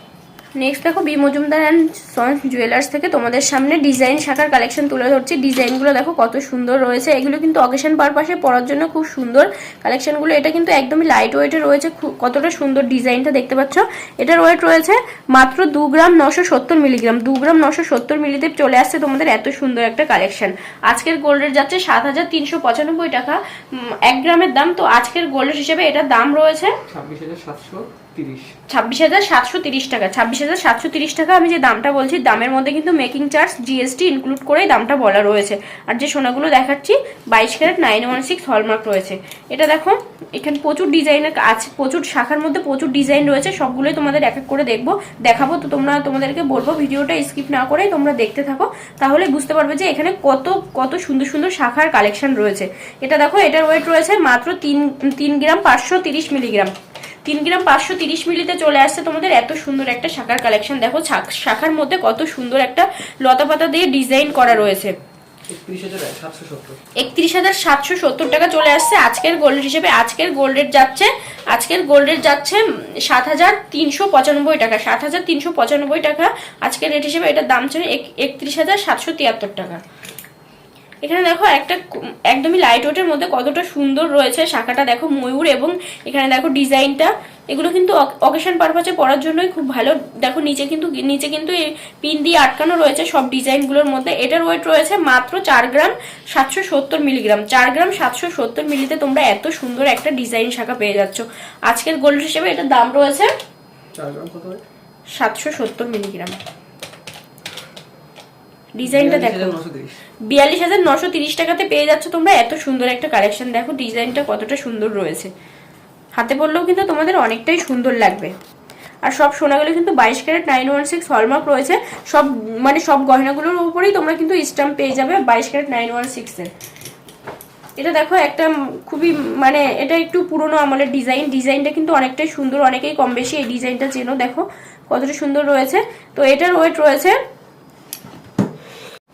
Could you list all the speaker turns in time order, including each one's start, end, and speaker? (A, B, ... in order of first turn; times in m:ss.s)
0:00.6-0:26.7 A
0:26.9-0:28.5 B
0:28.7-0:56.7 A
0:57.2-1:05.0 A
1:05.5-1:06.8 B
1:07.0-1:19.8 A
1:21.0-1:43.3 A
1:43.9-1:44.6 B
1:45.1-1:46.4 A
1:48.8-1:49.6 A
1:48.8-1:50.0 B
1:50.2-1:55.3 A
1:56.1-1:58.3 A
1:59.0-2:06.5 A
2:07.8-2:17.2 A